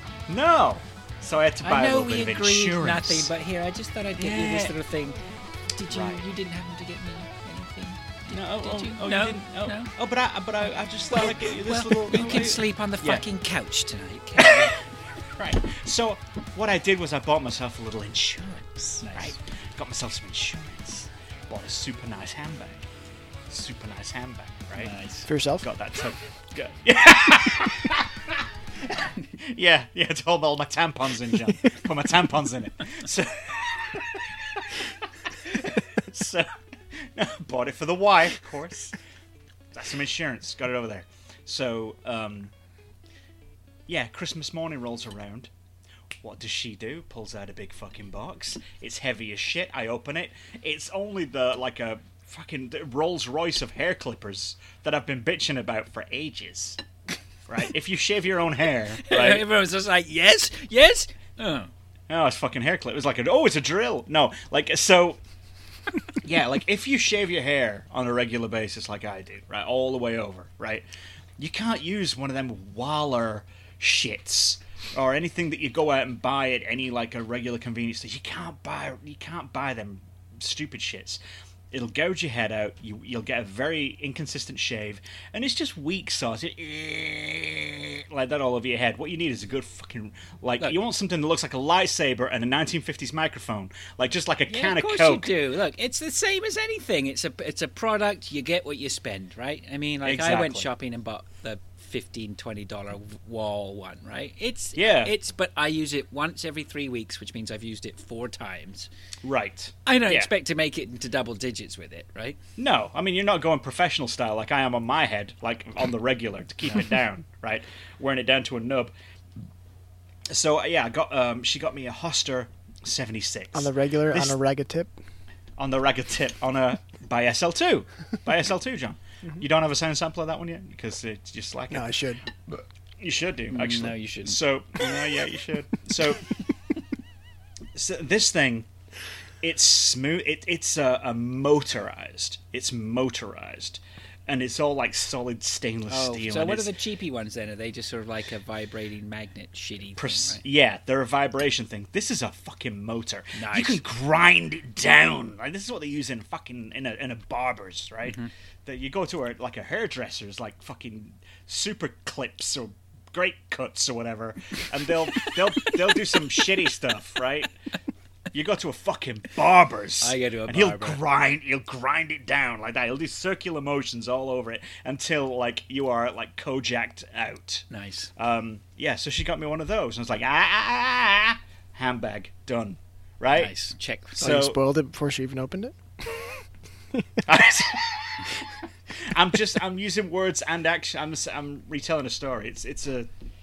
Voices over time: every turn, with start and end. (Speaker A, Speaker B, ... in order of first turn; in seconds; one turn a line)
Speaker A: 0.3-3.3
Speaker B: 1.6-5.2
Speaker A: 4.2-4.7
Speaker B: 5.7-9.9
Speaker A: 5.9-6.2
Speaker A: 8.3-13.2
Speaker B: 11.1-14.8
Speaker A: 14.4-22.9
Speaker B: 19.0-19.4
Speaker A: 23.5-24.9
Speaker B: 24.7-25.3
Speaker C: 25.2-25.6
Speaker A: 25.6-34.7
Speaker A: 35.4-38.9
Speaker A: 39.7-42.5
Speaker A: 43.9-45.5
Speaker A: 46.2-56.8
Speaker A: 57.5-59.5
Speaker B: 59.0-61.7
Speaker A: 62.1-65.2
Speaker A: 66.2-70.9
Speaker A: 71.4-81.2
Speaker A: 81.7-95.3
Speaker B: 94.5-108.9
Speaker A: 100.0-100.7
Speaker A: 104.8-105.1
Speaker A: 109.2-110.3
Speaker B: 109.8-112.4
Speaker A: 112.6-118.9
Speaker A: 120.3-124.4
Speaker C: 123.5-124.9
Speaker A: 125.6-131.9
Speaker C: 131.7-132.2
Speaker A: 132.5-136.3
Speaker B: 133.5-134.4
Speaker A: 137.7-138.7
Speaker A: 139.4-146.7
Speaker B: 145.9-150.4
Speaker A: 150.0-167.5
Speaker B: 153.3-153.8
Speaker A: 168.3-177.6
Speaker B: 170.0-171.0
Speaker B: 177.7-178.1
Speaker A: 178.2-183.5
Speaker B: 183.3-184.3
Speaker A: 184.2-184.6
Speaker C: 184.2-185.7
Speaker A: 187.2-193.1